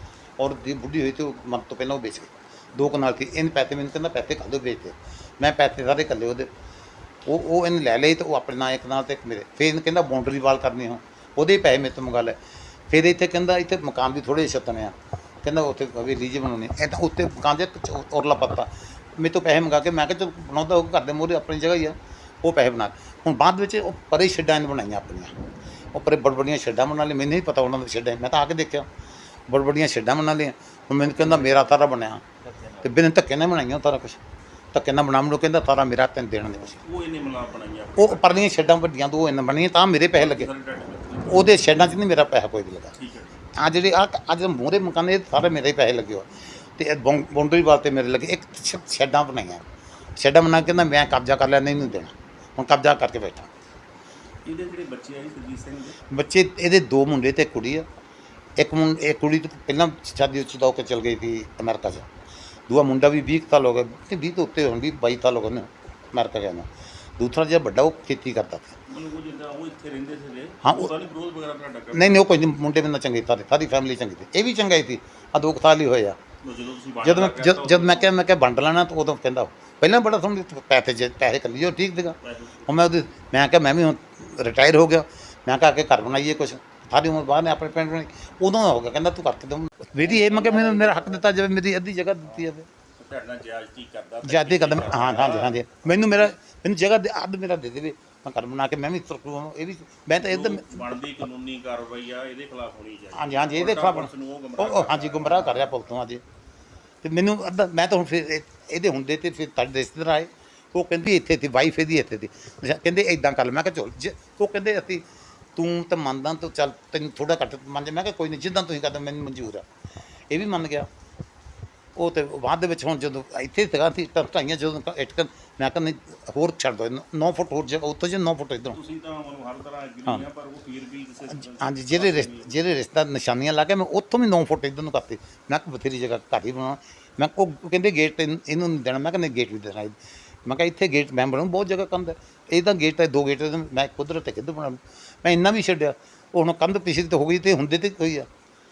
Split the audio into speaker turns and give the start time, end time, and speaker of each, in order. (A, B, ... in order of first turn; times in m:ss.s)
0:00.4-0:06.5 A
0:07.3-0:12.4 A
0:12.9-0:25.3 A
0:25.9-0:28.9 A
0:29.5-0:32.2 A
0:31.1-0:31.8 B
0:32.5-0:32.9 B
0:32.8-0:34.2 A
0:34.7-0:36.8 A
0:36.6-0:38.5 B
0:38.0-0:40.5 A
0:40.2-0:41.8 B
0:41.3-0:42.9 A
0:43.0-0:43.4 B
0:43.6-0:49.6 A
0:50.2-0:53.5 A
0:54.4-0:56.0 B
0:56.1-0:57.8 A
0:58.6-1:02.1 A
1:02.7-1:08.8 A
1:08.9-1:12.4 B
1:10.6-1:10.9 A
1:11.9-1:16.2 A
1:16.4-1:18.1 B
1:17.0-1:22.2 A
1:22.2-1:22.7 B
1:22.7-1:32.7 A
1:30.0-1:31.3 B
1:33.0-1:36.3 B
1:34.2-1:40.8 A
1:40.2-1:45.7 B
1:43.1-1:46.2 A
1:47.0-1:55.0 A
1:55.6-1:59.7 A
2:00.3-2:00.9 A
2:02.0-2:08.8 A
2:08.7-2:12.5 B
2:11.4-2:28.3 A